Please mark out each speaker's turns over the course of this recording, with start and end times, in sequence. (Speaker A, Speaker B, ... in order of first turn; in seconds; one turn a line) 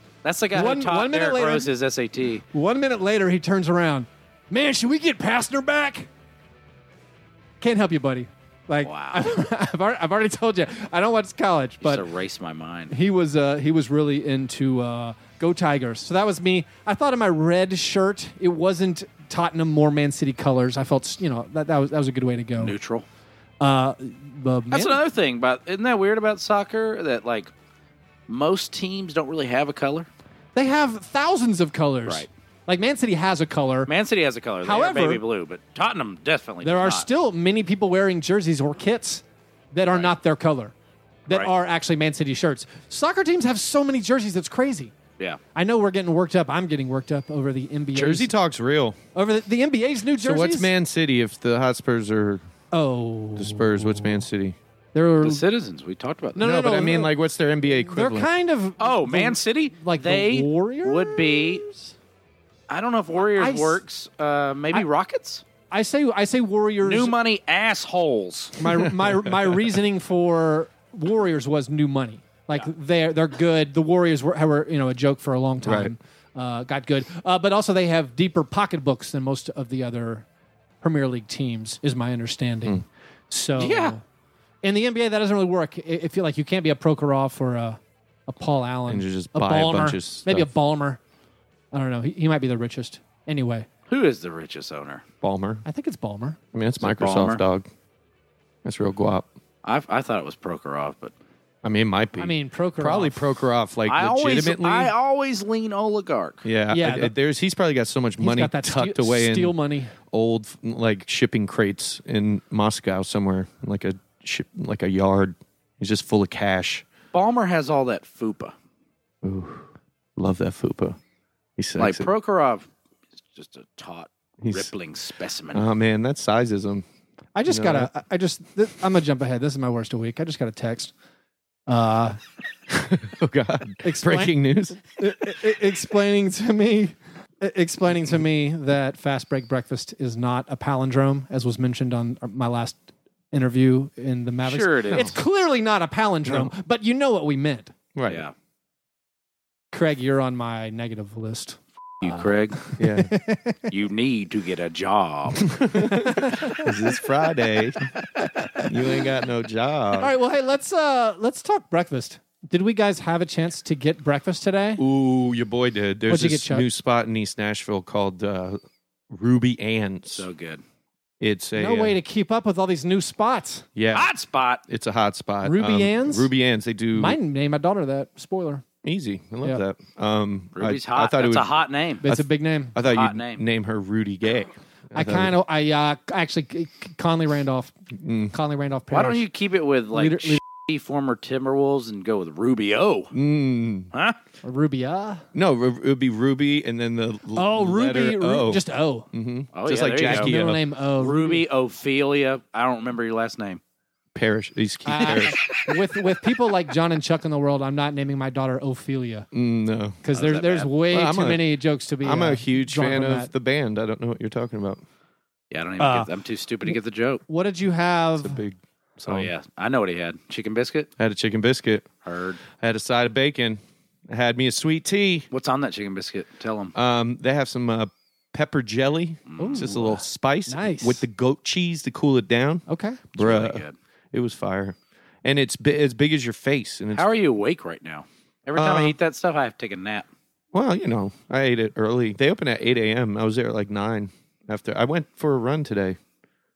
Speaker A: 0.2-2.4
Speaker B: 0.5-1.7
Speaker B: 2.5-6.1
Speaker B: 7.6-12.1
Speaker A: 8.8-9.3
Speaker A: 11.8-12.9
Speaker B: 12.9-22.8
Speaker A: 22.6-23.1
Speaker B: 23.6-25.0
Speaker A: 24.7-27.5
Speaker A: 28.3-30.1
Speaker B: 30.6-33.9
Speaker A: 33.9-37.1
Speaker B: 34.6-35.2
Speaker B: 36.6-40.7
Speaker B: 41.3-44.9
Speaker B: 45.5-48.3
Speaker C: 47.9-49.0
Speaker B: 49.1-50.7
Speaker C: 50.2-52.4
Speaker B: 52.7-54.2
Speaker C: 53.4-54.6
Speaker B: 54.9-55.4
Speaker A: 55.2-56.4
Speaker B: 56.4-57.1
Speaker C: 56.4-58.3
Speaker B: 57.9-61.9
Speaker A: 58.8-61.6
Speaker A: 62.7-65.4
Speaker B: 63.4-63.8
Speaker B: 65.7-67.2
Speaker A: 66.8-68.6
Speaker B: 68.6-80.3
Speaker C: 68.6-69.7
Speaker C: 75.6-75.9
Speaker B: 80.8-84.0
Speaker A: 83.6-84.0
Speaker B: 84.6-91.0
Speaker C: 88.9-90.5
Speaker B: 91.7-93.7
Speaker A: 93.9-95.0
Speaker C: 95.2-95.6
Speaker B: 95.7-96.4
Speaker C: 96.5-97.7
Speaker A: 96.8-97.4
Speaker C: 98.6-99.3
Speaker A: 99.6-101.1
Speaker C: 101.6-104.9
Speaker B: 102.2-103.2
Speaker A: 103.9-106.4
Speaker C: 106.4-109.5
Speaker B: 106.7-107.1
Speaker B: 108.2-110.0
Speaker C: 110.1-116.8
Speaker A: 117.1-118.5
Speaker C: 119.2-119.7
Speaker C: 120.2-121.0
Speaker C: 121.6-122.1
Speaker A: 121.8-122.7
Speaker A: 123.3-125.7
Speaker C: 124.4-124.7
Speaker C: 125.5-126.8
Speaker B: 127.3-130.9
Speaker C: 127.5-127.9
Speaker B: 131.7-132.2
Speaker C: 132.7-134.8
Speaker B: 133.8-142.8
Speaker B: 143.3-147.7
Speaker A: 144.4-145.1
Speaker C: 146.3-146.5
Speaker C: 147.9-148.2
Speaker A: 148.1-148.3
Speaker B: 149.7-153.6
Speaker A: 152.0-152.6
Speaker C: 152.8-153.2
Speaker A: 153.7-155.5
Speaker C: 155.4-157.9
Speaker B: 155.8-156.7
Speaker B: 158.2-158.7
Speaker C: 158.6-160.1
Speaker B: 159.9-164.8
Speaker C: 164.8-170.3
Speaker B: 166.1-166.7
Speaker A: 170.2-170.6
Speaker C: 171.2-172.0
Speaker B: 171.6-173.7
Speaker C: 173.8-174.1
Speaker A: 173.9-174.6
Speaker C: 174.7-177.2
Speaker B: 175.4-176.3
Speaker B: 176.9-178.6
Speaker C: 178.8-181.5
Speaker A: 180.6-182.1
Speaker B: 182.0-182.8
Speaker C: 182.0-185.3
Speaker A: 182.8-183.4
Speaker B: 184.9-187.7
Speaker C: 187.9-188.3
Speaker B: 188.3-189.2
Speaker A: 188.9-193.1
Speaker B: 189.9-190.4
Speaker C: 193.1-193.9
Speaker B: 194.4-195.3
Speaker C: 195.3-200.6
Speaker B: 197.3-199.1
Speaker A: 199.5-200.4
Speaker B: 200.0-201.4
Speaker A: 201.0-203.6
Speaker C: 204.2-205.4
Speaker B: 204.9-209.3
Speaker A: 205.0-205.8
Speaker C: 209.3-210.0
Speaker B: 210.0-213.3
Speaker A: 210.1-210.7
Speaker C: 210.9-211.4
Speaker C: 212.0-214.8
Speaker A: 215.5-217.2
Speaker B: 215.8-216.1
Speaker B: 217.3-218.4
Speaker C: 218.2-219.3
Speaker A: 219.1-220.9
Speaker C: 221.0-221.9
Speaker A: 222.0-222.4
Speaker C: 222.5-225.3
Speaker A: 225.3-226.8
Speaker C: 226.8-237.1
Speaker A: 229.3-229.7
Speaker B: 229.4-231.0
Speaker B: 232.7-233.0
Speaker A: 233.2-233.8
Speaker A: 236.9-240.1
Speaker C: 238.6-238.9
Speaker C: 240.5-246.0